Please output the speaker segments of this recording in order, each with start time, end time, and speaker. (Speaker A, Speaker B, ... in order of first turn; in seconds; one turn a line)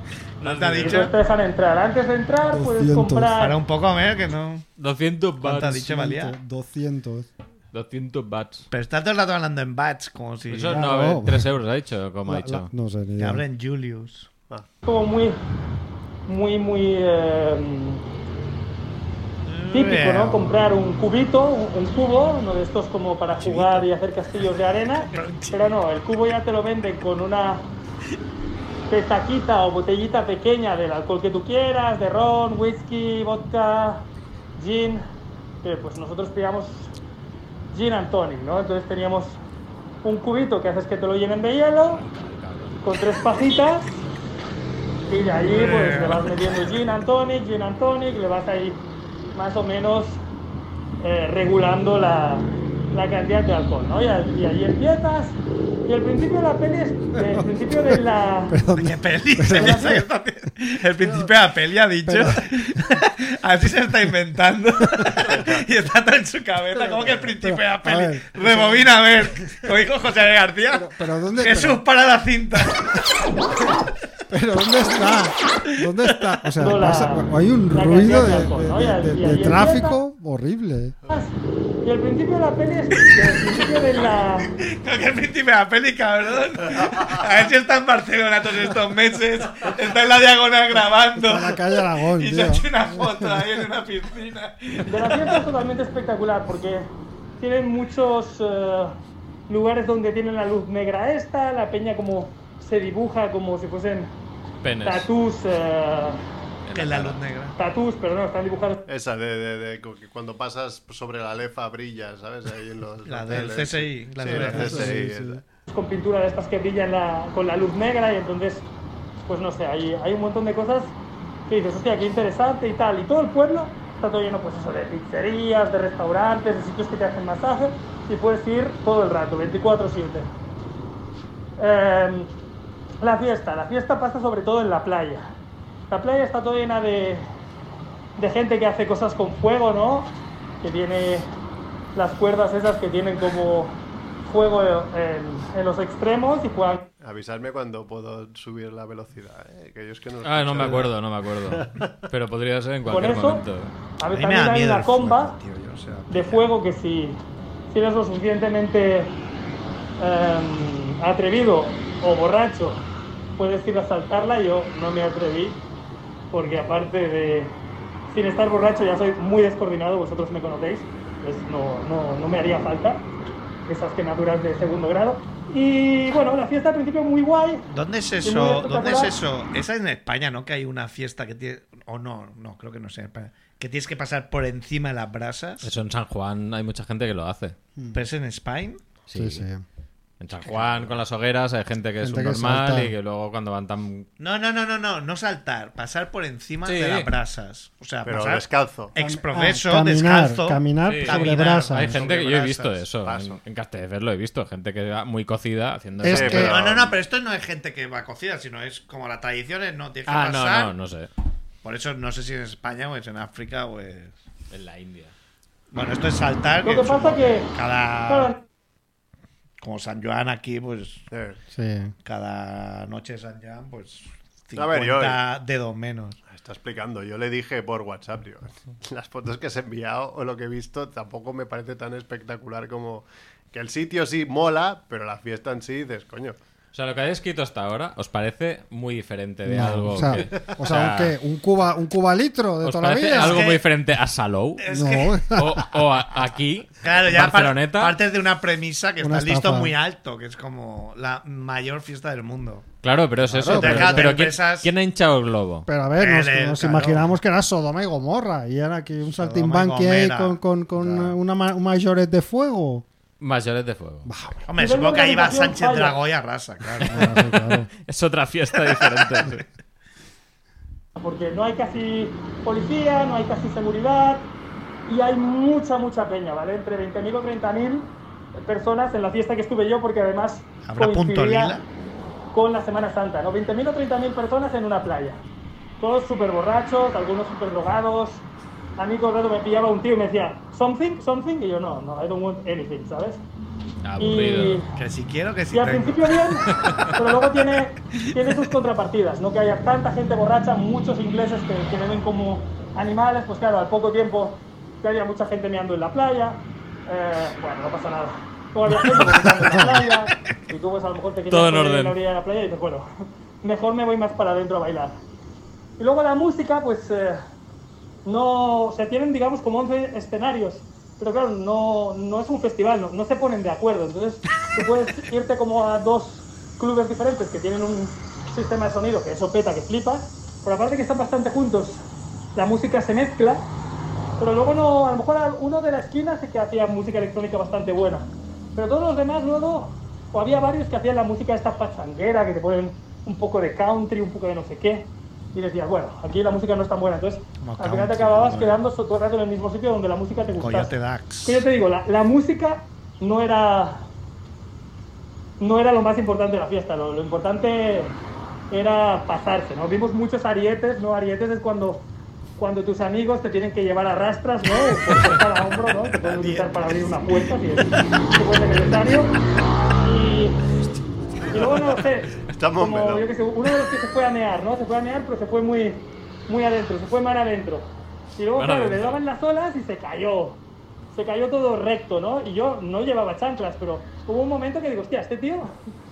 Speaker A: 0.4-1.0
Speaker B: 0.4-1.1
Speaker C: 0.8-3.6
Speaker D: 2.5-3.3
Speaker B: 3.4-4.7
Speaker A: 4.8-5.8
Speaker B: 5.4-6.4
Speaker D: 5.5-7.3
Speaker A: 7.7-8.7
Speaker B: 8.7-10.9
Speaker A: 10.5-12.7
Speaker D: 10.7-11.5
Speaker D: 12.3-13.4
Speaker B: 13.2-14.3
Speaker C: 14.8-15.4
Speaker C: 16.3-18.0
Speaker B: 19.4-20.4
Speaker C: 19.7-27.7
Speaker B: 25.0-25.7
Speaker C: 28.9-35.0
Speaker C: 35.6-36.9
Speaker C: 37.7-39.4
Speaker C: 40.0-42.1
Speaker A: 42.1-42.8
Speaker C: 42.8-44.0
Speaker C: 45.1-48.8
Speaker B: 45.5-46.3
Speaker C: 49.3-50.2
Speaker C: 51.0-58.6
Speaker D: 58.5-60.0
Speaker B: 58.7-73.0
Speaker C: 59.5-60.0
Speaker D: 62.0-63.0
Speaker D: 64.9-65.3
Speaker E: 65.3-65.6
Speaker D: 66.7-69.7
Speaker D: 70.7-71.8
Speaker D: 74.3-81.0
Speaker C: 76.6-80.0
Speaker C: 81.1-84.5
Speaker B: 83.1-83.7
Speaker B: 84.5-95.4
Speaker D: 91.1-93.6
Speaker C: 94.9-96.9
Speaker C: 97.4-104.1
Speaker A: 104.6-105.1
Speaker C: 104.8-106.2
Speaker A: 106.7-107.2
Speaker B: 106.7-107.6
Speaker C: 107.6-108.8
Speaker E: 108.9-115.4
Speaker B: 113.0-115.0
Speaker D: 114.2-115.4
Speaker C: 115.7-118.7
Speaker C: 119.3-121.0
Speaker C: 121.5-130.3
Speaker C: 131.6-132.3
Speaker C: 133.0-135.3
Speaker C: 135.9-137.3
Speaker C: 138.2-140.1
Speaker C: 140.6-141.3
Speaker C: 141.9-146.9
Speaker E: 147.0-150.9
Speaker A: 150.2-153.7
Speaker E: 151.4-152.1
Speaker C: 152.9-153.4
Speaker C: 154.0-155.4
Speaker B: 154.1-156.5
Speaker C: 156.1-157.2
Speaker C: 157.7-159.1
Speaker C: 160.0-162.8
Speaker C: 163.4-165.6
Speaker C: 166.3-167.5
Speaker C: 168.1-173.1
Speaker C: 173.7-177.7
Speaker B: 177.7-185.7
Speaker C: 178.2-179.2
Speaker A: 185.6-187.6
Speaker B: 187.9-188.8
Speaker A: 189.1-189.4
Speaker D: 189.2-189.6
Speaker A: 190.2-194.1
Speaker B: 190.5-190.9
Speaker D: 192.0-192.9
Speaker B: 194.2-202.8
Speaker A: 196.7-197.1
Speaker E: 198.1-198.9
Speaker D: 199.0-202.0
Speaker A: 200.8-206.6
Speaker E: 203.0-203.4
Speaker D: 206.0-206.6
Speaker E: 206.1-207.0
Speaker B: 206.4-210.7
Speaker A: 210.1-211.1
Speaker B: 211.6-214.1
Speaker A: 214.5-215.1
Speaker B: 215.7-218.3
Speaker C: 216.6-217.5
Speaker C: 218.1-218.4
Speaker B: 219.6-221.1
Speaker E: 221.1-221.4
Speaker D: 221.5-221.9
Speaker B: 222.0-226.2
Speaker E: 224.6-225.2
Speaker E: 226.3-236.4
Speaker A: 236.7-241.2
Speaker D: 239.4-243.5
Speaker E: 240.1-240.5
Speaker A: 242.6-244.6
Speaker B: 243.1-243.6
Speaker B: 244.6-245.4
Speaker D: 244.7-245.8
Speaker A: 245.3-248.0
Speaker B: 246.8-252.7
Speaker D: 249.0-249.7
Speaker A: 252.8-255.7
Speaker D: 253.3-254.3
Speaker B: 253.5-254.7
Speaker D: 255.7-262.9
Speaker B: 256.0-257.1
Speaker B: 259.1-260.4
Speaker E: 260.8-261.1
Speaker A: 263.2-264.1
Speaker D: 264.1-264.5
Speaker B: 264.5-267.0
Speaker C: 264.6-266.0
Speaker D: 266.9-267.7
Speaker A: 266.9-269.5
Speaker C: 271.0-274.3
Speaker C: 274.9-281.6
Speaker B: 280.6-281.6
Speaker C: 282.3-285.2
Speaker C: 285.8-288.2
Speaker C: 288.8-293.2
Speaker A: 293.8-294.6
Speaker C: 294.0-294.7
Speaker B: 294.8-296.5
Speaker C: 295.5-312.9
Speaker A: 296.5-296.9
Speaker D: 309.4-309.9
Speaker A: 311.3-312.0
Speaker C: 313.4-315.0
Speaker C: 315.8-317.2
Speaker C: 318.1-331.8
Speaker C: 332.4-333.4
Speaker C: 334.2-350.7
Speaker B: 347.4-348.6
Speaker B: 350.4-351.4
Speaker C: 351.2-353.9
Speaker C: 355.4-358.0
Speaker C: 358.5-369.1
Speaker B: 364.6-365.2
Speaker B: 366.0-368.0
Speaker C: 369.8-370.4
Speaker C: 371.3-380.4
Speaker E: 372.2-373.1
Speaker A: 378.4-379.0
Speaker C: 380.9-385.5